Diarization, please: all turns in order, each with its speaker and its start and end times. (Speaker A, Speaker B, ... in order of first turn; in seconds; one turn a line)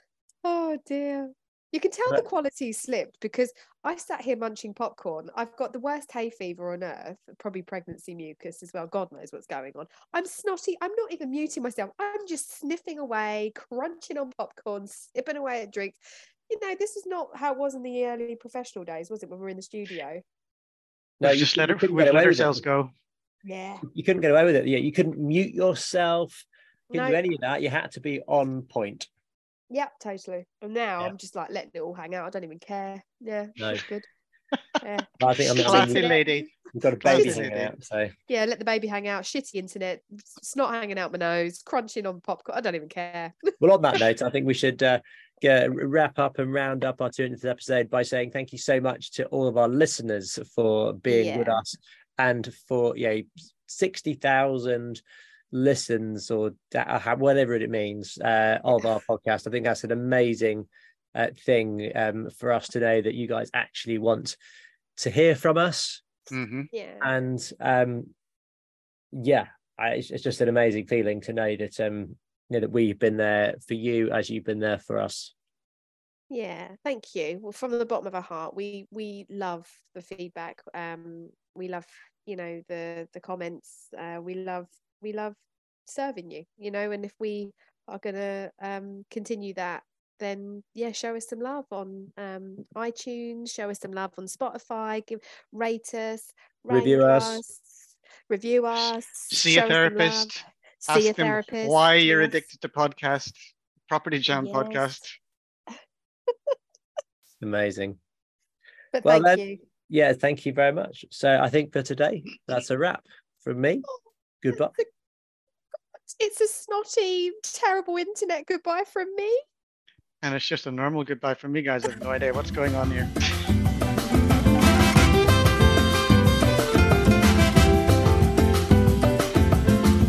Speaker A: 0.4-20.2
Speaker B: 21.2-22.6
Speaker C: 21.2-22.9
Speaker A: 23.4-23.8
Speaker B: 23.9-29.1
Speaker A: 26.9-27.2
Speaker A: 29.7-34.1
Speaker A: 34.8-36.4
Speaker B: 35.2-36.1
Speaker C: 35.6-36.5
Speaker B: 36.7-38.1
Speaker C: 37.0-37.7
Speaker A: 38.3-43.6
Speaker B: 43.6-64.4
Speaker A: 51.1-51.6
Speaker B: 65.0-66.0
Speaker C: 66.3-66.7
Speaker A: 66.7-67.1
Speaker B: 67.0-68.1
Speaker B: 69.1-75.3
Speaker A: 76.3-97.8
Speaker B: 96.7-97.4
Speaker A: 98.3-102.5
Speaker C: 99.3-105.1
Speaker A: 104.3-105.0
Speaker A: 106.3-106.6
Speaker B: 107.4-108.0
Speaker A: 108.9-109.6
Speaker B: 109.0-113.9
Speaker B: 114.4-114.8
Speaker A: 116.1-119.4
Speaker C: 120.2-123.1